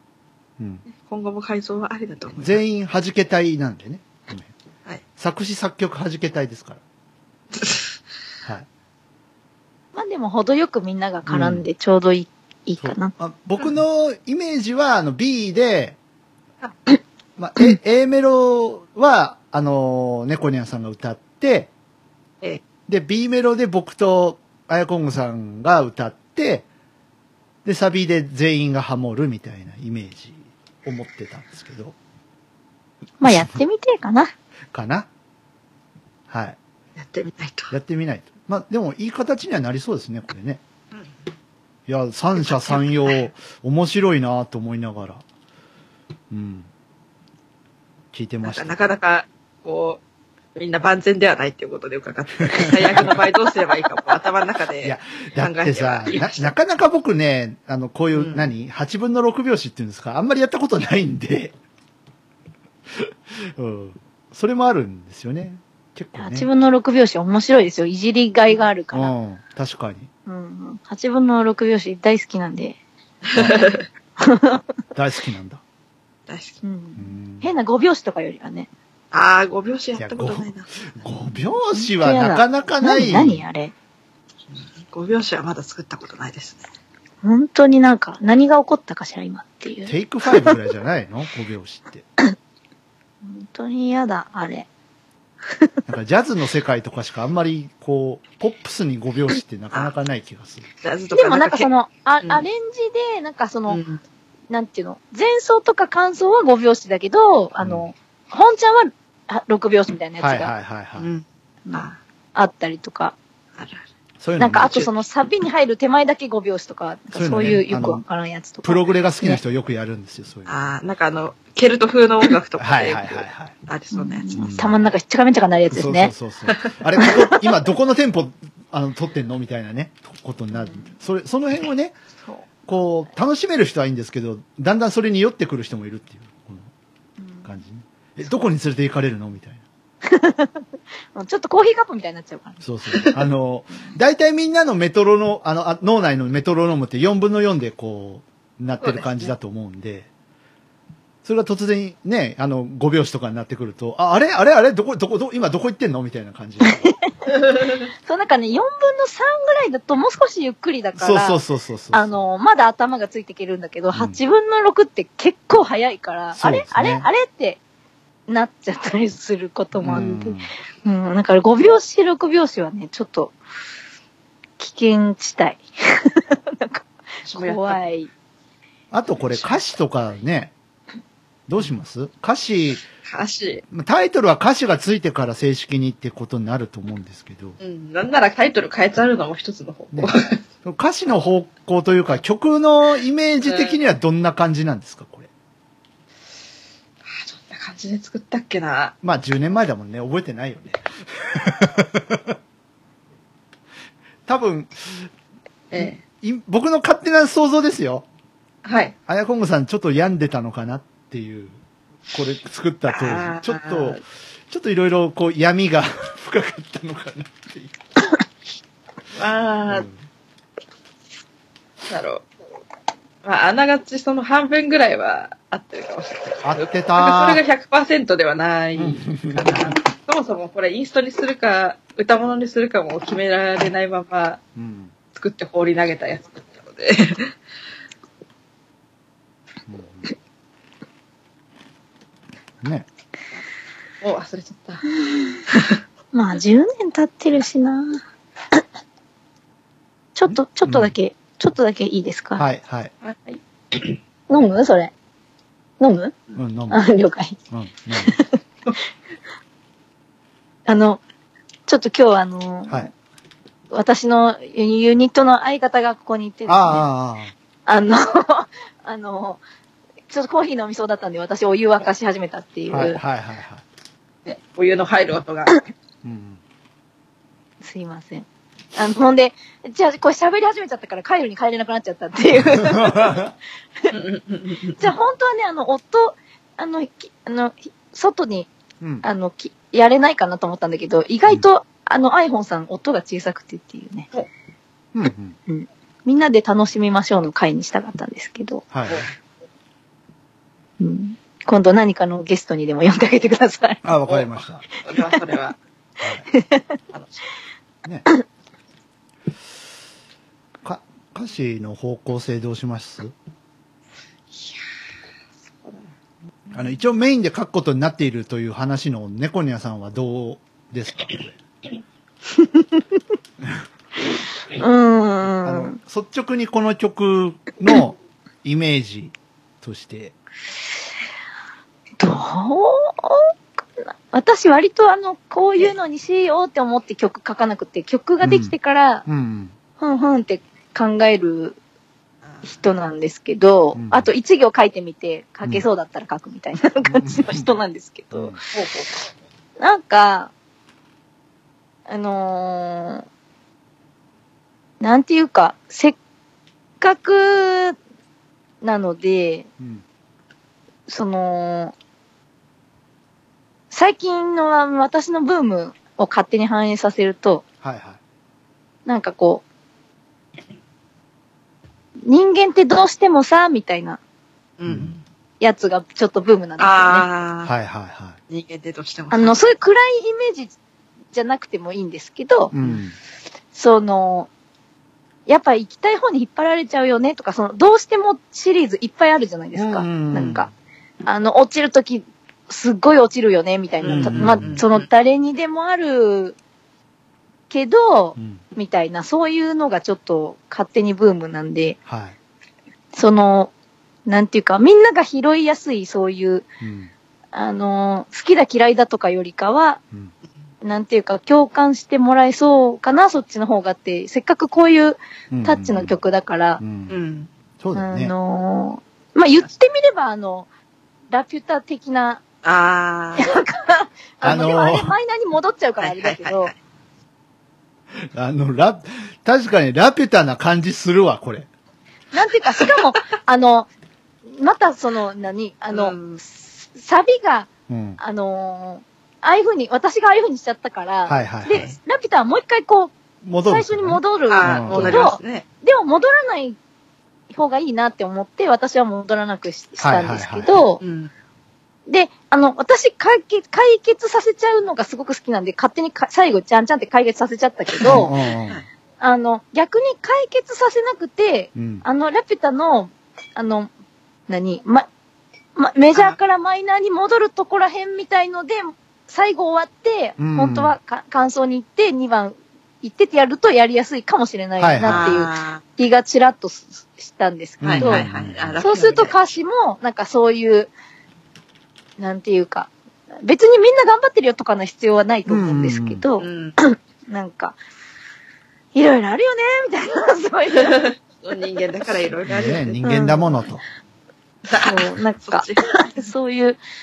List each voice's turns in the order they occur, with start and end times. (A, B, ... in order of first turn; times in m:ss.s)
0:00.6-0:00.8 A
0:01.0-0:02.6 B
0:02.4-0:04.5 A
0:05.2-0:06.8 A
0:07.6-0:07.9 B
0:09.9-0:13.1 C
0:11.3-0:11.6 A
0:12.8-0:16.0 A
0:17.4-0:21.7 A
0:22.9-0:26.7 A
0:27.6-0:32.0 A
0:33.2-0:34.3 C
0:33.2-0:33.5 A
0:34.7-0:35.1 A
0:36.3-0:36.6 A
0:37.0-0:37.7 B
0:37.7-0:40.6 A
0:41.9-0:45.2 A
0:46.3-0:46.7 A
0:48.1-0:48.8 A
0:48.4-0:50.0 B
0:50.6-0:56.5 B
0:52.5-0:53.2 A
0:54.8-1:01.5 A
0:58.1-0:58.5 B
1:02.9-1:06.5 A
1:06.2-1:09.1 C
1:08.9-1:10.1 A
1:10.3-1:12.8 C
1:13.3-1:13.9 B
1:14.2-1:14.6 C
1:15.0-1:15.6 A
1:16.3-1:16.6 B
1:16.6-1:18.7 C
1:17.0-1:17.5 A
1:19.1-1:20.9 B
1:20.0-1:23.4 A
1:21.7-1:23.7 C
1:24.5-1:26.7 B
1:27.2-1:30.5 C
1:29.9-1:32.1 A
1:33.2-1:34.7 C
1:35.9-1:40.7 A
1:40.8-1:41.7 B
1:41.1-1:43.8 C
1:43.7-1:44.0 B
1:44.5-1:50.5 C
1:47.6-1:47.9 A
1:50.2-1:51.1 A
1:51.0-1:52.0 B
1:51.7-1:53.2 C
1:53.6-1:53.8 B
1:54.2-1:54.9 A
1:54.4-1:59.4 C
1:57.1-1:58.0 A
1:58.6-2:00.6 A
2:00.5-2:04.3 B
2:02.6-2:03.5 A
2:03.9-2:06.1 C
2:04.4-2:04.9 A
2:05.7-2:12.0 A
2:06.5-2:07.2 B
2:12.7-2:16.7 A
2:17.2-2:17.5 C
2:17.4-2:19.6 A
2:20.0-2:22.6 C
2:22.6-2:30.1 A
2:28.8-2:29.3 B
2:31.2-2:36.9 A
2:36.6-2:37.3 C
2:38.0-2:41.4 C
2:41.0-2:42.2 A
2:41.9-2:47.6 C
2:43.9-2:44.2 A
2:46.4-2:47.1 A
2:48.3-2:53.4 C
2:49.8-2:50.5 A
2:54.6-2:58.1 C
2:57.2-2:57.8 B
2:58.9-3:00.5 A
2:59.3-2:59.6 B
3:01.5-3:02.9 A
3:03.1-3:03.6 B
3:03.7-3:07.6 A
3:07.6-3:10.4 B
3:10.6-3:15.3 A
3:13.4-3:13.8 B
3:17.0-3:18.9 B
3:19.0-3:22.4 A
3:24.3-3:25.1 A
3:25.7-3:26.0 B
3:25.8-3:28.1 A
3:28.6-3:28.9 B
3:29.1-3:31.6 A
3:32.1-3:37.8 A
3:32.9-3:34.0 B
3:39.2-3:39.9 B
3:39.7-3:39.9 A
3:41.9-3:42.3 B
3:43.2-3:54.4 B
3:46.4-3:47.4 A
3:48.8-3:49.7 A
3:54.6-3:54.9 A
3:55.2-3:57.3 B
3:59.7-4:00.1 A
4:02.6-4:02.9 A
4:04.0-4:04.9 B
4:05.0-4:05.4 C
4:05.5-4:05.8 B
4:06.1-4:08.0 C
4:10.2-4:12.4 C
4:10.3-4:10.9 A
4:12.4-4:12.9 A
4:13.0-4:13.4 B
4:14.3-4:14.9 C
4:15.8-4:16.1 C
4:16.4-4:16.8 A
4:16.7-4:17.4 C
4:17.5-4:18.2 A
4:18.0-4:18.4 C
4:20.7-4:21.0 C
4:21.7-4:22.9 C
4:23.7-4:26.9 C
4:26.5-4:27.3 A
4:27.7-4:29.4 C
4:30.1-4:33.0 C
4:32.7-4:33.6 A
4:34.3-4:35.6 B
4:36.0-4:36.4 A
4:37.6-4:43.2 C
4:42.4-4:43.3 A
4:43.9-4:44.9 B
4:44.8-4:48.5 C
4:48.8-4:49.1 A
4:49.0-4:54.1 C
4:54.9-4:55.4 A
4:55.5-4:58.6 C
4:58.7-4:59.1 A
4:58.9-4:59.1 B
5:00.8-5:03.8 C
5:03.8-5:04.6 A
5:04.1-5:05.6 B
5:06.0-5:06.3 A
5:06.3-5:06.8 C
5:06.9-5:07.2 B
5:10.6-5:13.1 A
5:14.3-5:14.6 B
5:16.5-5:21.4 A
5:22.3-5:22.8 C
5:24.5-5:25.8 C
5:25.4-5:30.1 A
5:32.0-5:39.1 C
5:38.2-5:38.5 A
5:39.1-5:39.5 A
5:39.8-5:41.6 C
5:42.4-5:48.4 C
5:43.8-5:44.1 A
5:46.8-5:47.5 A
5:48.1-5:48.4 A
5:48.5-5:49.0 B
5:49.6-5:50.3 C
5:51.9-5:53.0 C
5:54.8-5:56.0 C
5:56.8-5:57.8 C
5:58.6-5:59.5 C
5:59.6-5:59.8 A
6:00.9-6:01.7 C
6:03.7-6:07.4 C
6:07.6-6:08.0 A
6:08.9-6:09.4 C
6:12.0-6:14.0 C
6:14.6-6:15.0 B
6:14.7-6:14.9 A
6:15.4-6:17.1 C
6:16.6-6:17.5 B
6:17.4-6:18.2 A
6:18.3-6:19.4 B
6:19.1-6:20.6 C
6:21.1-6:22.5 C
6:22.5-6:23.0 A
6:23.5-6:24.3 C
6:25.3-6:30.5 C
6:29.6-6:30.5 A
6:31.0-6:36.4 C
6:33.8-6:34.9 B
6:33.8-6:34.6 A
6:37.5-6:41.8 C
6:38.2-6:38.4 A
6:41.9-6:42.2 A
6:42.9-6:43.5 C
6:44.1-6:46.5 C
6:46.6-6:46.9 A
6:47.3-6:49.8 C
6:50.6-6:56.6 C
6:55.3-6:56.0 A
6:56.6-6:57.0 A
6:56.9-6:57.3 B
6:57.6-6:58.1 A
6:57.8-7:00.5 C
7:01.1-7:02.2 C
7:02.4-7:03.4 B
7:03.2-7:06.5 C
7:04.2-7:04.9 A
7:05.8-7:06.6 B
7:07.9-7:11.5 A
7:12.1-7:13.7 C
7:14.3-7:26.6 C
7:15.7-7:16.2 B
7:17.7-7:18.0 A
7:21.1-7:21.6 A
7:21.5-7:21.8 B
7:23.2-7:25.1 A
7:24.3-7:25.4 B
7:27.3-7:30.8 C
7:29.8-7:30.5 A
7:30.8-7:31.1 B
7:31.9-7:38.2 C
7:37.8-7:38.7 B
7:37.8-7:38.6 A
7:39.0-7:43.7 C
7:41.6-7:41.8 A
7:44.3-7:44.9 C
7:45.6-7:58.0 C
7:50.2-7:50.8 A
7:54.6-7:55.3 A
7:54.8-7:55.6 B
7:57.6-7:58.6 A
7:57.6-7:59.2 B
7:58.6-8:00.7 C
8:02.0-8:07.6 C
8:05.3-8:06.0 A
8:06.2-8:06.6 B
8:08.7-8:10.9 C
8:10.6-8:12.8 B
8:12.3-8:13.6 A
8:12.8-8:13.4 C
8:14.5-8:16.1 B
8:14.5-8:16.6 C